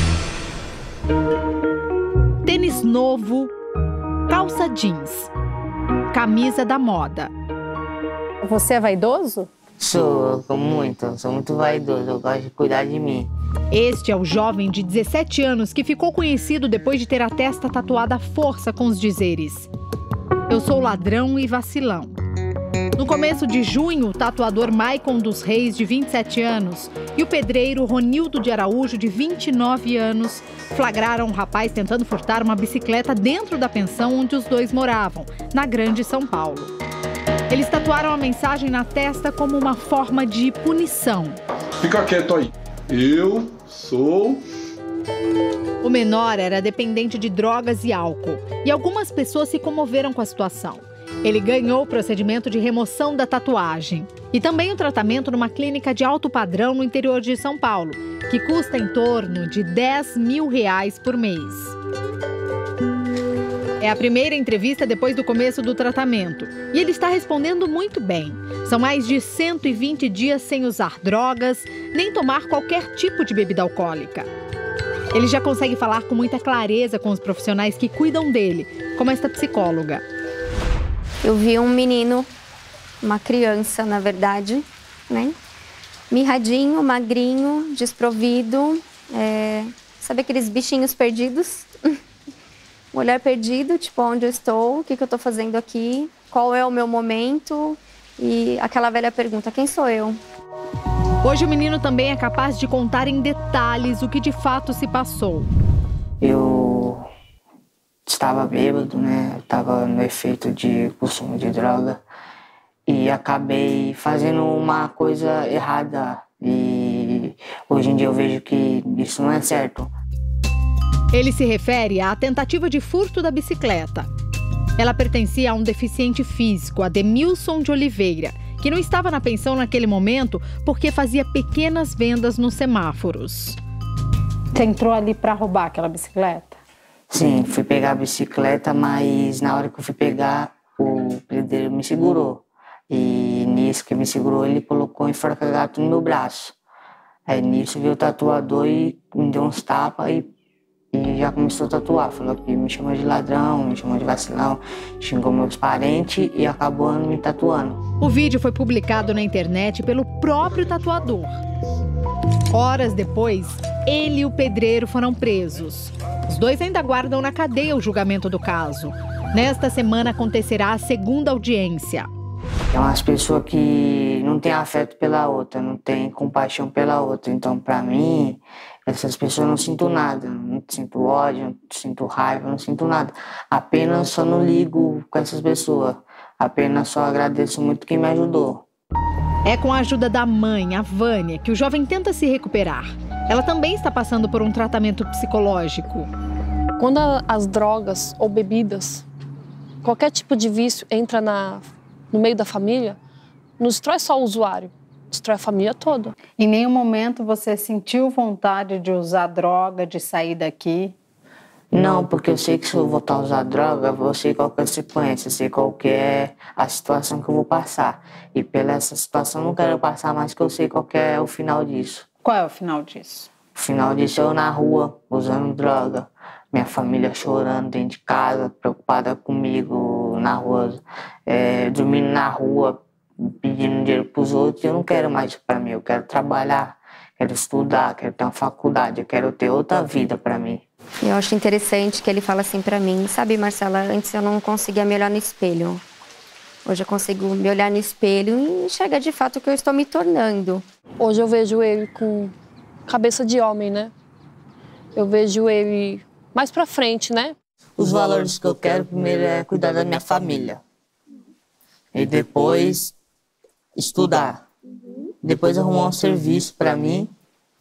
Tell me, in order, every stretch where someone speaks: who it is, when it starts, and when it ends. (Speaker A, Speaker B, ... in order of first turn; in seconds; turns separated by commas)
Speaker A: 2.4-3.5, Speaker A: 4.3-5.3, Speaker A: 6.1-7.3, Speaker B: 8.4-9.5, Speaker C: 9.8-13.3, Speaker A: 13.7-19.7, Speaker A: 20.5-22.2, Speaker A: 22.9-36.8, Speaker A: 37.5-41.4, Speaker D: 41.8-44.4, Speaker A: 45.8-61.8, Speaker A: 63.8-74.3, Speaker A: 75.1-80.0, Speaker E: 81.2-82.3, Speaker E: 83.0-85.3, Speaker E: 86.1-92.0, Speaker E: 92.9-100.2, Speaker A: 101.2-105.5, Speaker C: 106.2-107.1, Speaker C: 108.0-112.0, Speaker C: 112.9-119.9, Speaker A: 121.1-124.1, Speaker A: 124.8-133.6, Speaker B: 134.5-136.5, Speaker C: 137.1-146.6, Speaker C: 147.3-150.3, Speaker C: 150.9-157.8, Speaker A: 158.0-161.4, Speaker A: 162.5-172.1, Speaker C: 172.7-188.7, Speaker A: 189.4-196.1, Speaker F: 196.8-199.0, Speaker F: 199.8-203.0, Speaker F: 203.6-206.2, Speaker B: 206.4-210.9, Speaker C: 211.7-222.1, Speaker B: 222.2-223.3, Speaker C: 223.5-240.6, Speaker E: 241.0-245.8, Speaker E: 246.6-250.6, Speaker F: 251.0-252.3, Speaker F: 252.8-253.9, Speaker F: 254.9-257.4, Speaker C: 257.8-260.6, Speaker C: 261.9-262.9, Speaker C: 263.8-264.5, Speaker C: 265.2-267.1